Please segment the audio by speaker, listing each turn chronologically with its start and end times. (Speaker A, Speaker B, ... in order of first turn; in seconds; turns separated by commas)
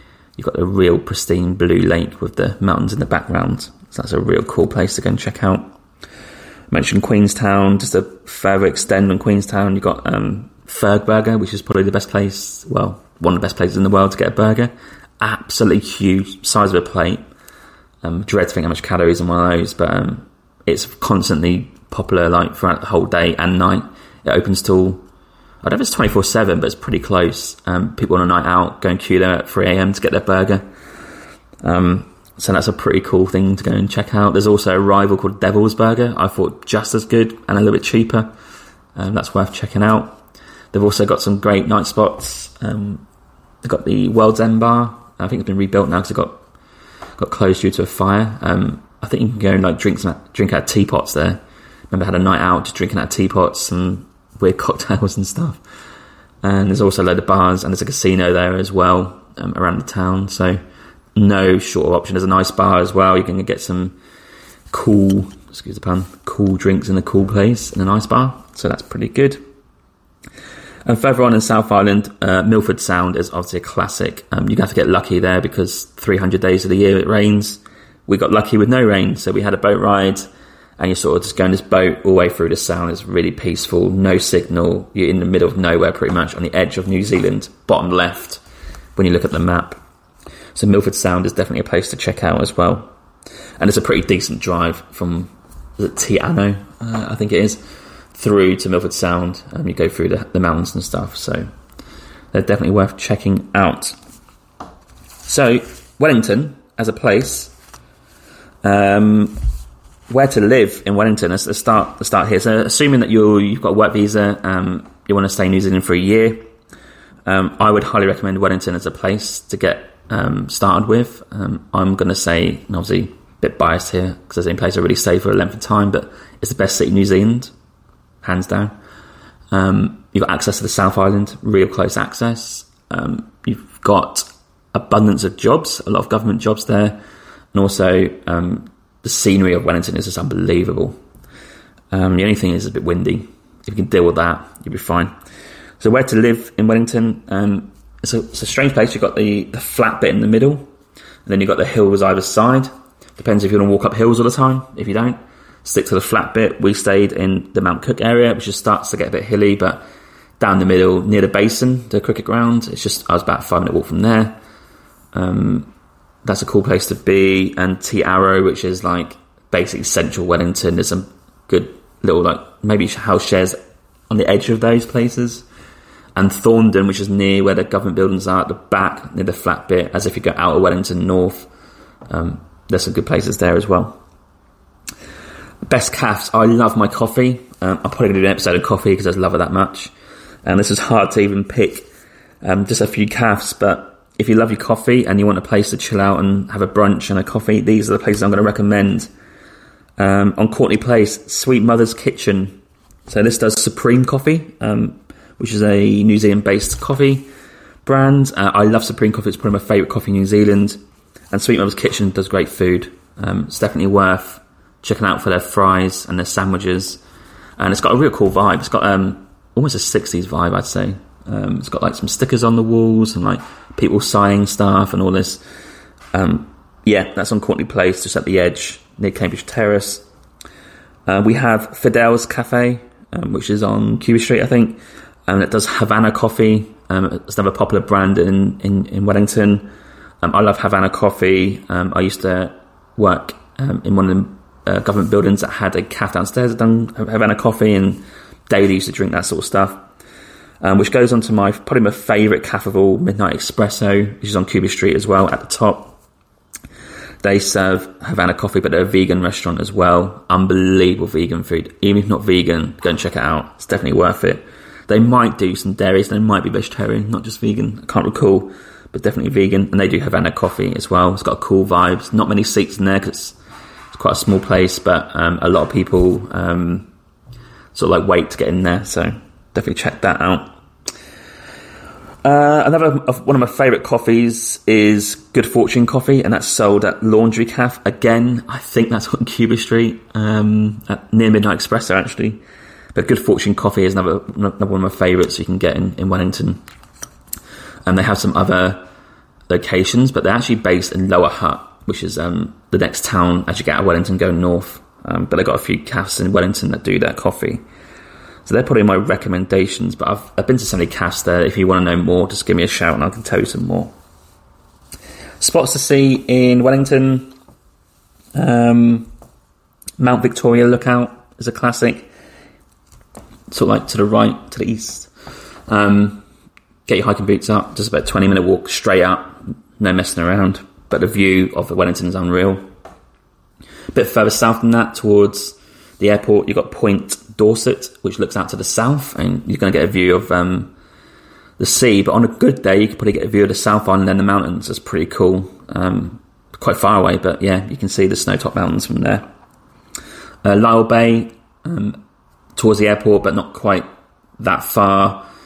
Speaker A: 0.4-5.7, Speaker A: 6.7-17.2, Speaker A: 18.0-25.0, Speaker A: 25.6-30.6, Speaker A: 31.6-38.3, Speaker A: 39.0-40.2, Speaker A: 40.7-43.0, Speaker A: 43.6-46.5, Speaker A: 47.2-55.6, Speaker A: 56.4-60.6, Speaker A: 61.2-64.0, Speaker A: 64.7-69.4, Speaker A: 70.9-80.3, Speaker A: 80.8-88.4, Speaker A: 89.0-89.8, Speaker A: 90.5-92.9, Speaker A: 93.6-97.6, Speaker A: 98.2-101.5, Speaker A: 102.3-104.0, Speaker A: 105.3-107.5, Speaker A: 108.6-109.4, Speaker A: 110.1-116.4, Speaker A: 117.3-127.5, Speaker A: 128.2-128.8, Speaker A: 129.5-137.0, Speaker A: 137.5-141.0, Speaker A: 141.9-145.1, Speaker A: 145.8-150.7, Speaker A: 151.3-159.8, Speaker A: 160.4-164.4, Speaker A: 165.1-165.7, Speaker A: 166.2-173.6, Speaker A: 174.1-175.4, Speaker A: 176.2-181.5, Speaker A: 182.1-184.0, Speaker A: 185.7-189.9, Speaker A: 190.4-191.9, Speaker A: 192.4-199.1, Speaker A: 200.0-207.3, Speaker A: 207.8-210.8, Speaker A: 211.3-217.0, Speaker A: 217.6-225.4, Speaker A: 226.1-230.0, Speaker A: 231.1-239.7, Speaker A: 240.2-249.8, Speaker A: 250.6-256.0, Speaker A: 257.2-273.4, Speaker A: 273.9-276.9, Speaker A: 277.8-280.6, Speaker A: 282.2-292.4, Speaker A: 292.9-296.6, Speaker A: 297.9-298.9, Speaker A: 299.5-307.6, Speaker A: 308.5-313.9, Speaker A: 315.4-317.3, Speaker A: 318.4-319.1, Speaker A: 320.0-322.1, Speaker A: 323.5-325.1, Speaker A: 325.7-326.2, Speaker A: 326.9-332.6, Speaker A: 333.9-340.7, Speaker A: 341.6-349.2, Speaker A: 350.4-352.0, Speaker A: 352.6-353.9, Speaker A: 354.4-355.2